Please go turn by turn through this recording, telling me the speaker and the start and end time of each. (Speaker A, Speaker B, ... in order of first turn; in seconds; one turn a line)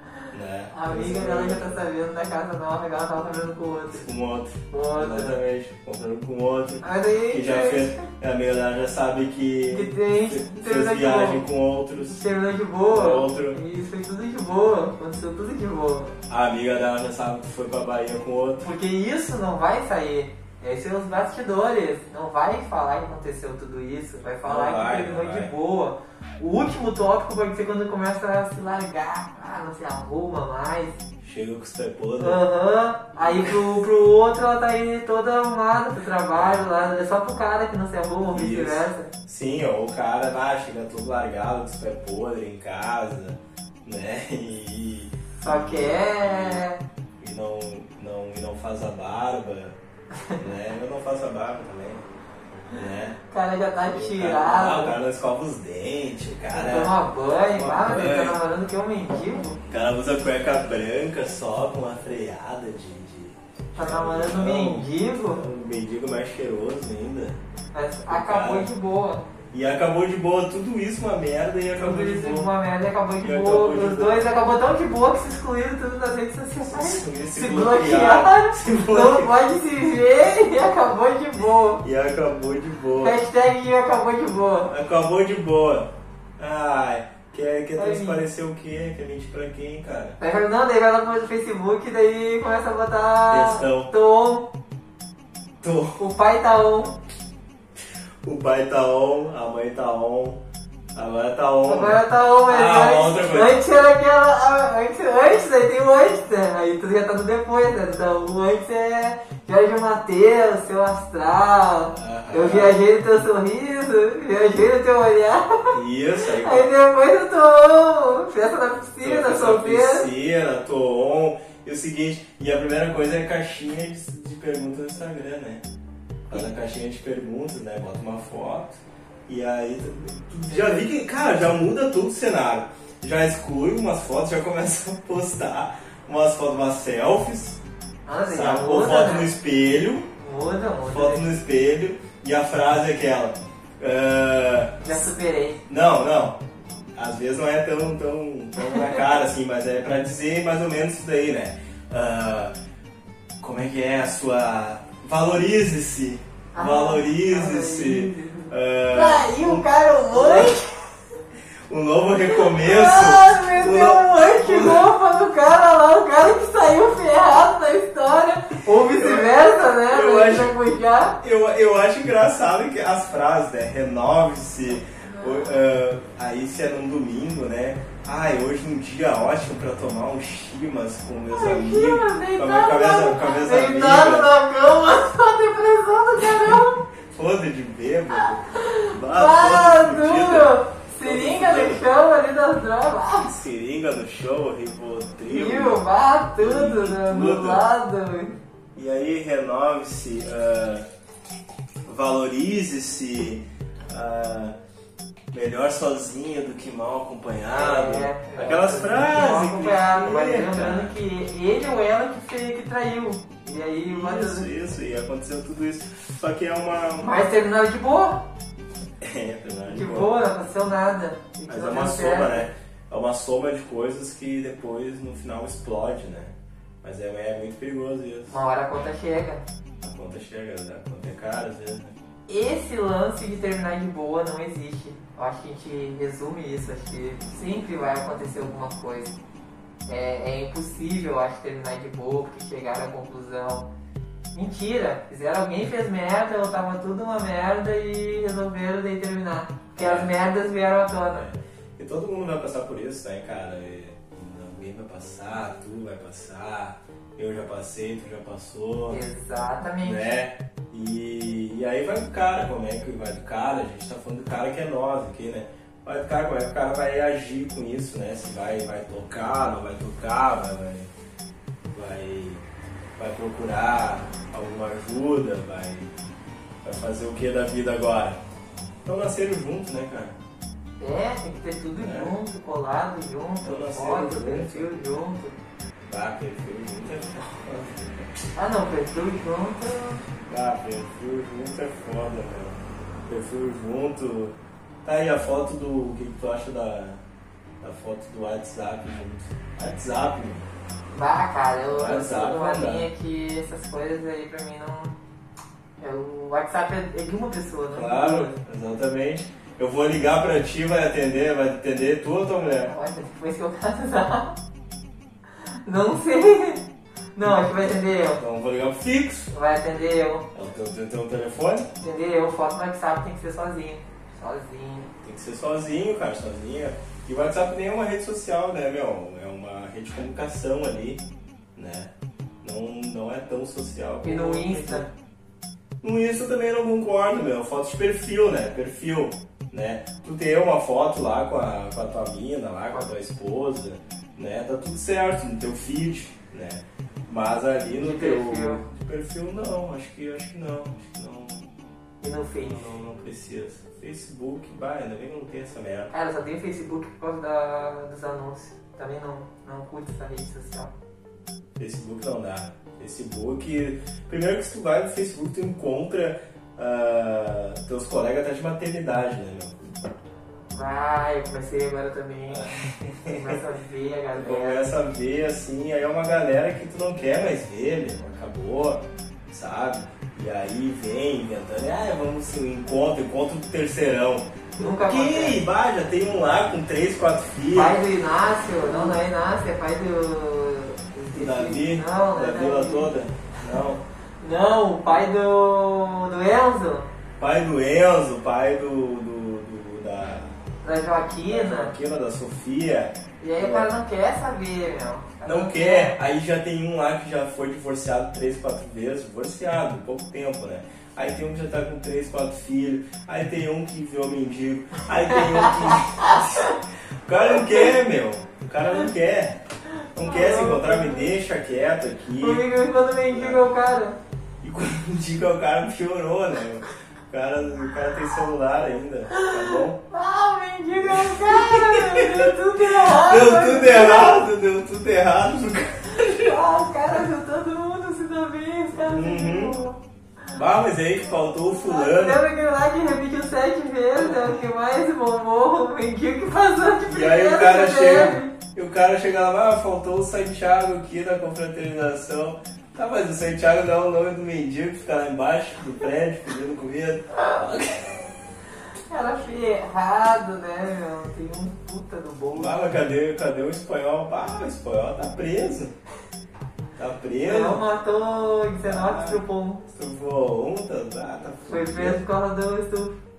Speaker A: 0.3-1.8
Speaker B: 0.7-4.0
Speaker A: 3.9-12.2
Speaker B: 4.7-5.4
Speaker B: 6.8-8.0
Speaker B: 9.7-11.4
Speaker B: 12.0-16.1
Speaker A: 12.9-13.6
Speaker A: 16.3-18.7
Speaker B: 18.6-31.0
Speaker A: 24.4-25.5
Speaker A: 31.2-32.4
Speaker B: 32.2-39.1
Speaker A: 33.2-33.8
Speaker A: 36.3-36.7
Speaker A: 38.3-46.6
Speaker B: 45.4-46.8
Speaker A: 47.2-49.8
Speaker A: 50.4-52.0
Speaker A: 52.7-53.2
Speaker B: 53.3-55.0
Speaker A: 53.9-56.9
Speaker B: 56.5-59.6
Speaker A: 57.5-58.4
Speaker A: 59.7-67.4
Speaker B: 63.8-65.4
Speaker B: 67.7-69.2
Speaker A: 68.1-68.7
Speaker A: 69.5-72.5
Speaker B: 71.7-81.8
Speaker A: 73.2-74.3
Speaker A: 76.7-79.3
Speaker A: 81.8-83.2
Speaker B: 83.0-84.7
Speaker A: 84.7-90.2
Speaker B: 87.8-88.2
Speaker B: 90.2-94.5
Speaker A: 93.3-93.9
Speaker A: 95.6-96.0
Speaker B: 96.0-97.0
Speaker A: 98.2-100.4
Speaker A: 100.9-103.6
Speaker B: 101.6-115.7
Speaker A: 111.9-112.8
Speaker A: 115.7-116.7
Speaker B: 116.3-120.1
Speaker A: 119.0-125.7
Speaker A: 126.3-137.6
Speaker B: 130.5-130.8
Speaker B: 138.1-139.3
Speaker A: 138.3-140.1
Speaker B: 140.2-141.3
Speaker A: 140.9-145.1
Speaker B: 144.8-145.6
Speaker A: 145.7-146.4
Speaker A: 146.9-152.5
Speaker B: 148.6-149.0
Speaker A: 153.4-160.6
Speaker B: 156.5-160.9
Speaker A: 161.7-164.9
Speaker B: 162.2-171.2
Speaker A: 168.7-170.6
Speaker A: 171.2-184.3
Speaker B: 175.0-175.5
Speaker B: 181.3-186.8
Speaker A: 186.2-191.8
Speaker B: 188.2-193.3
Speaker A: 193.2-197.6
Speaker B: 195.3-198.4
Speaker A: 198.7-200.8
Speaker A: 201.8-204.6
Speaker A: 205.3-210.9
Speaker B: 207.5-214.5
Speaker A: 213.9-217.2
Speaker B: 217.0-218.2
Speaker A: 219.0-220.2
Speaker B: 219.7-222.5
Speaker A: 221.5-228.4
Speaker B: 228.3-229.4
Speaker A: 229.8-231.9
Speaker B: 232.3-239.2
Speaker B: 239.9-243.7
Speaker B: 244.3-251.3
Speaker A: 249.7-250.1
Speaker A: 251.1-259.0
Speaker B: 258.9-260.1
Speaker A: 259.8-270.9
Speaker A: 271.7-272.4
Speaker A: 273.0-275.9
Speaker A: 276.6-278.2
Speaker A: 278.9-280.1
Speaker B: 280.8-285.4
Speaker A: 281.8-282.1
Speaker A: 283.4-284.7
Speaker A: 285.9-288.1
Speaker B: 288.3-290.0
Speaker A: 290.3-297.0
Speaker A: 297.6-300.5
Speaker B: 300.9-304.9
Speaker A: 301.7-302.9
Speaker B: 305.8-308.4
Speaker A: 307.7-312.7
Speaker B: 312.6-314.4
Speaker B: 315.4-316.6
Speaker B: 317.1-318.2
Speaker A: 318.1-319.3
Speaker B: 319.3-320.3
Speaker A: 320.3-321.7
Speaker B: 321.8-324.9
Speaker A: 325.0-331.0
Speaker A: 331.5-331.9
Speaker A: 332.4-334.9
Speaker B: 334.0-334.9
Speaker A: 335.8-351.5
Speaker B: 347.8-348.6
Speaker B: 352.0-352.8
Speaker A: 352.4-355.9
Speaker B: 355.9-360.7
Speaker A: 361.6-369.6
Speaker B: 370.5-372.4
Speaker A: 372.3-373.4
Speaker B: 373.1-374.7
Speaker A: 374.1-387.8
Speaker B: 384.6-385.4
Speaker B: 387.5-392.9
Speaker A: 388.7-388.9
Speaker A: 391.1-393.8
Speaker B: 394.2-396.9
Speaker A: 397.2-400.4
Speaker B: 400.6-401.7
Speaker A: 401.2-403.7
Speaker B: 403.2-406.0
Speaker A: 405.2-419.4
Speaker B: 415.0-416.6
Speaker B: 417.3-417.7
Speaker A: 419.9-422.4
Speaker B: 420.0-421.1
Speaker B: 422.2-424.0
Speaker A: 423.1-423.5
Speaker A: 424.4-429.8
Speaker B: 429.1-434.3
Speaker A: 430.8-436.3
Speaker B: 435.9-439.8
Speaker A: 438.8-439.6
Speaker A: 440.3-442.2
Speaker B: 441.4-448.3
Speaker A: 444.0-444.4
Speaker A: 446.8-458.0
Speaker B: 458.9-462.6
Speaker A: 462.3-465.7
Speaker A: 466.8-467.6
Speaker B: 467.2-469.6
Speaker A: 468.6-472.0
Speaker B: 471.4-473.0